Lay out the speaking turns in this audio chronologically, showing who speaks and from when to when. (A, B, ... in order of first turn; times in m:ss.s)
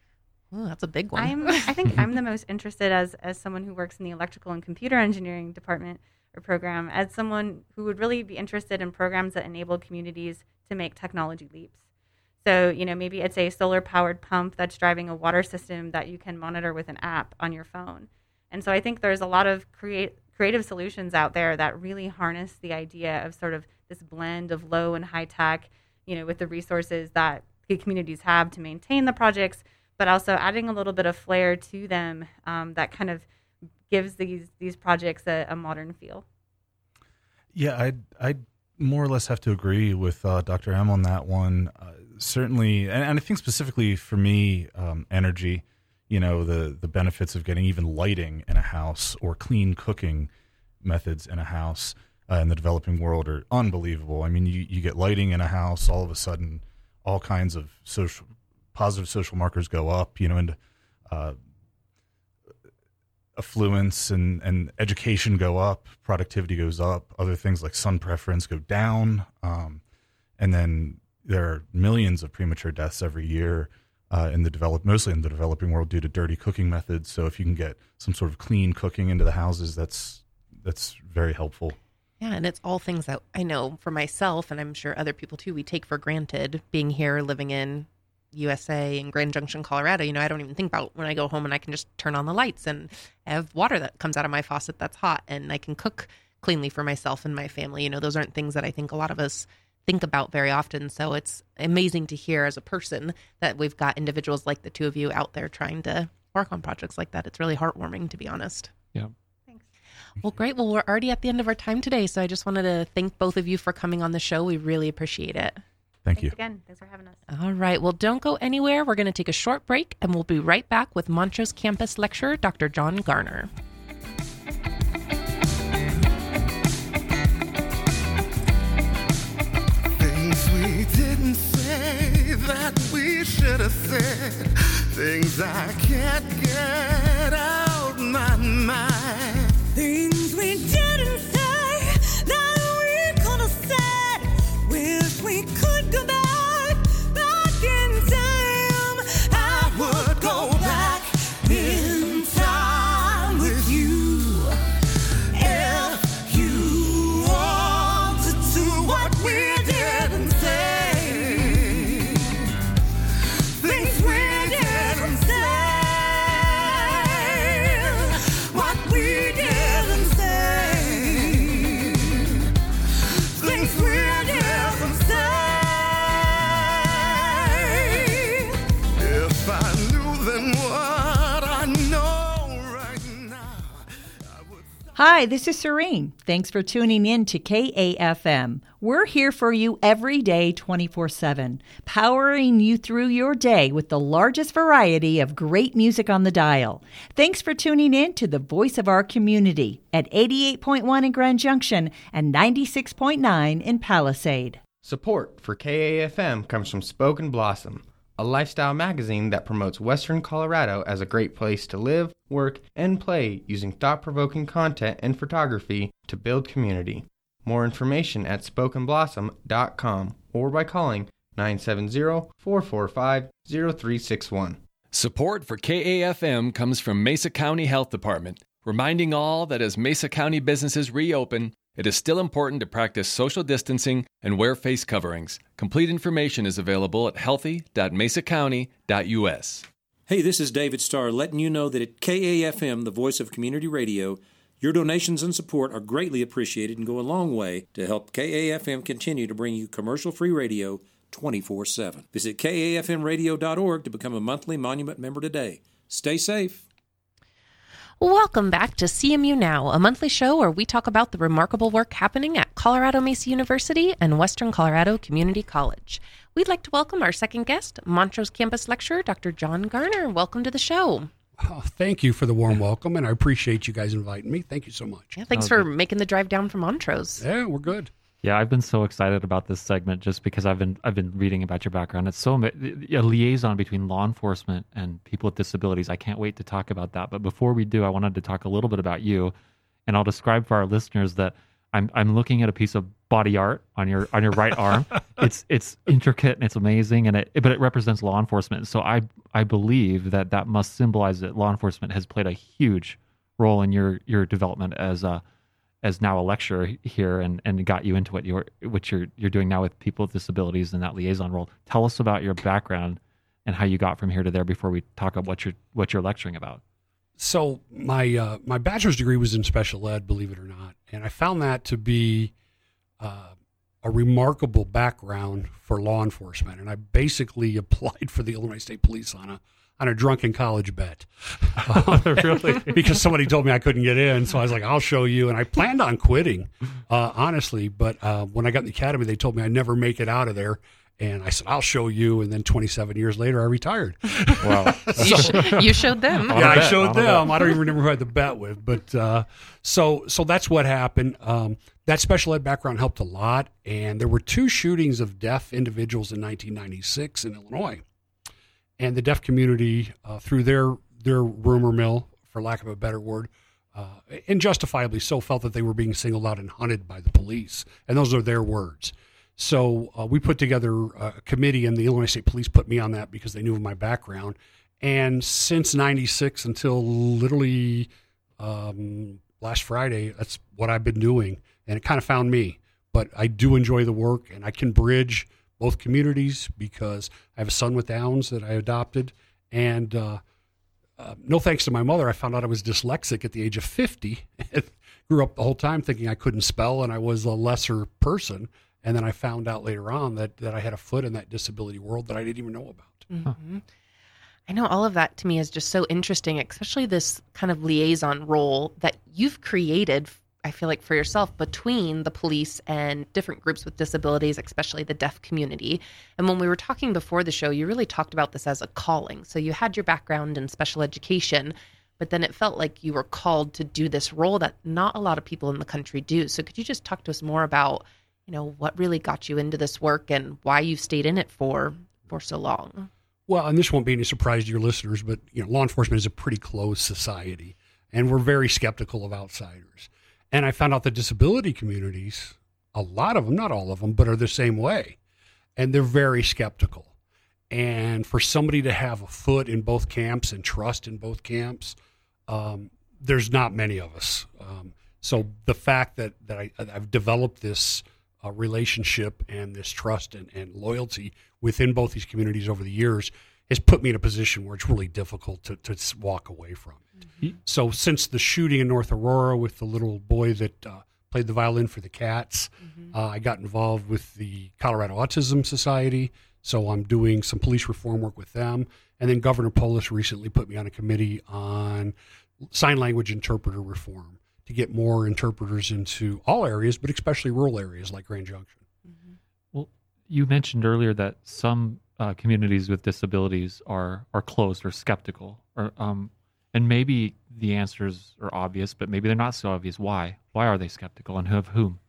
0:00.5-0:01.7 A
0:01.2-0:11.8 B
0:12.4-0:33.2 B
0:33.9-0:36.2 B
0:37.5-0:50.3 C
0:50.8-1:00.6 C
1:01.1-1:01.4 C
1:03.4-1:09.8 C
1:10.4-1:21.8 C
1:22.2-1:48.7 A
1:50.2-1:55.6 A
1:56.0-1:56.3 C
1:56.2-1:57.2 B
1:57.3-2:03.5 A
2:09.9-2:19.6 D
2:19.8-2:34.5 E
2:29.7-2:34.2 D
2:35.4-2:41.6 E
2:35.4-2:42.1 D
2:43.6-2:45.8 D
2:43.6-2:51.4 E
2:48.5-2:51.9 D
2:53.4-2:55.8 E
2:53.4-2:55.7 D
2:57.5-2:58.0 D
2:58.0-2:58.4 E
2:59.0-3:05.0 D
3:05.0-3:24.6 F
3:24.8-3:44.6 G
3:44.9-3:59.7 H
4:00.1-4:16.6 I
4:18.0-4:31.1 A
4:31.4-4:35.2 J
4:35.2-4:37.2 A
4:35.3-4:35.7 K
4:37.2-4:37.9 J
4:38.2-4:49.3 K
4:49.9-5:05.2 K
5:05.8-5:16.6 K
5:17.2-5:22.3 J
5:23.0-5:45.6 J
5:31.7-5:32.8 K
5:44.4-5:45.8 K
5:45.0-5:46.8 A
5:46.3-5:47.6 K
5:46.3-5:57.8 J
5:58.8-6:30.2 J
6:31.0-6:43.0 J
6:43.1-6:43.6 A
6:44.5-7:12.9 A
7:13.3-7:25.0 J
7:25.6-7:26.9 J
7:27.5-7:31.8 J
7:32.3-8:02.0 J
8:02.5-8:08.6 J
8:09.5-8:21.8 K